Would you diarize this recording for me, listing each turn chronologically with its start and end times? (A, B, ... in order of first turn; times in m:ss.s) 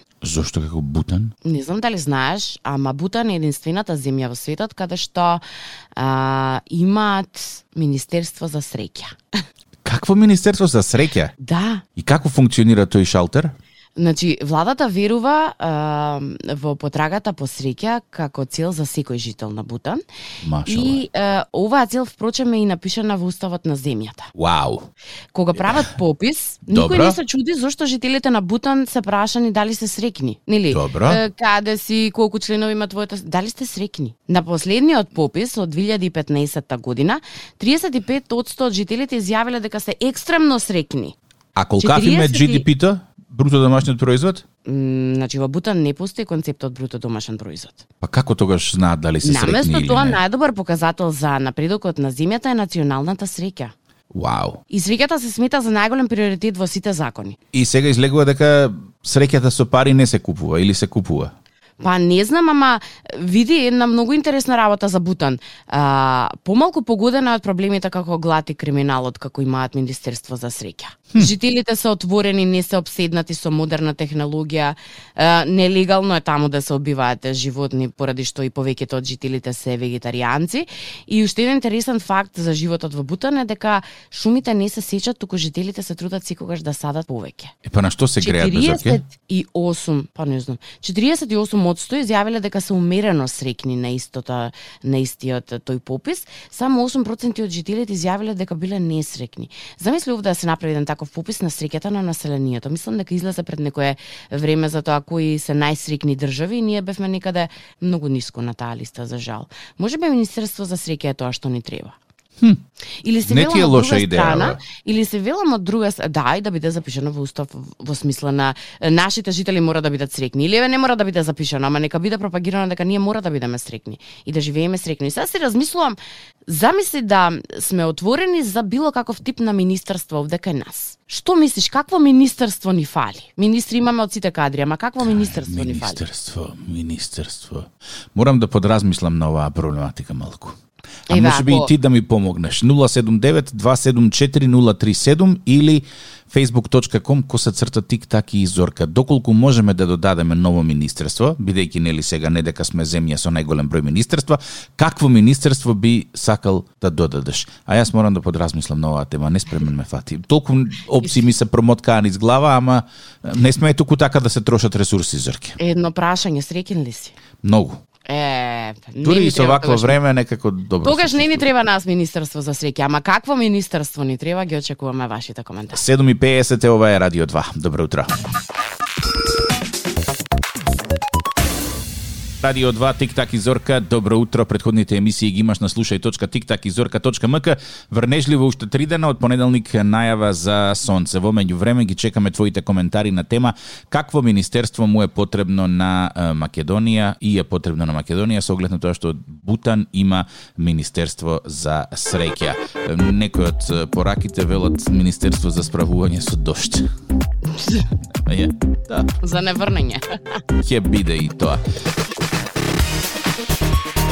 0:00.2-0:01.3 A
0:01.4-0:05.4 B
0:06.0-0:09.2 B
0:09.8-0:11.3 A
0:11.4-0:11.8 B
0:12.0-0:13.5 A
0:14.0-0:20.0 B
0:20.4-0:21.0 A
0:20.6-0:24.3 B
0:24.3-0:24.9 A
0:25.3-0:41.1 B
0:26.7-0:27.2 A
0:30.7-0:31.2 A
0:41.6-0:44.4 A
0:41.8-0:42.6 B
0:44.6-0:47.8 B
0:48.0-0:50.2 A
0:49.2-0:53.7 B
0:54.1-0:54.6 A
0:54.7-0:57.4 B
0:57.5-1:01.3 A
1:01.8-1:27.5 B
1:27.6-1:29.0 A
1:28.2-1:52.0 B
1:53.0-2:16.0 B
1:53.2-1:54.6 A
2:15.0-2:20.6 A
2:21.1-2:21.7 B
2:21.1-2:45.6 A
2:45.6-2:47.2 B
2:47.4-2:47.8 A
2:48.1-2:50.0 B
2:49.0-2:51.5 A
2:50.8-2:55.8 B
2:55.7-2:58.1 A
3:02.4-3:26.9 A
3:28.2-3:29.1 A
3:29.2-3:30.0 B
3:30.6-3:31.6 A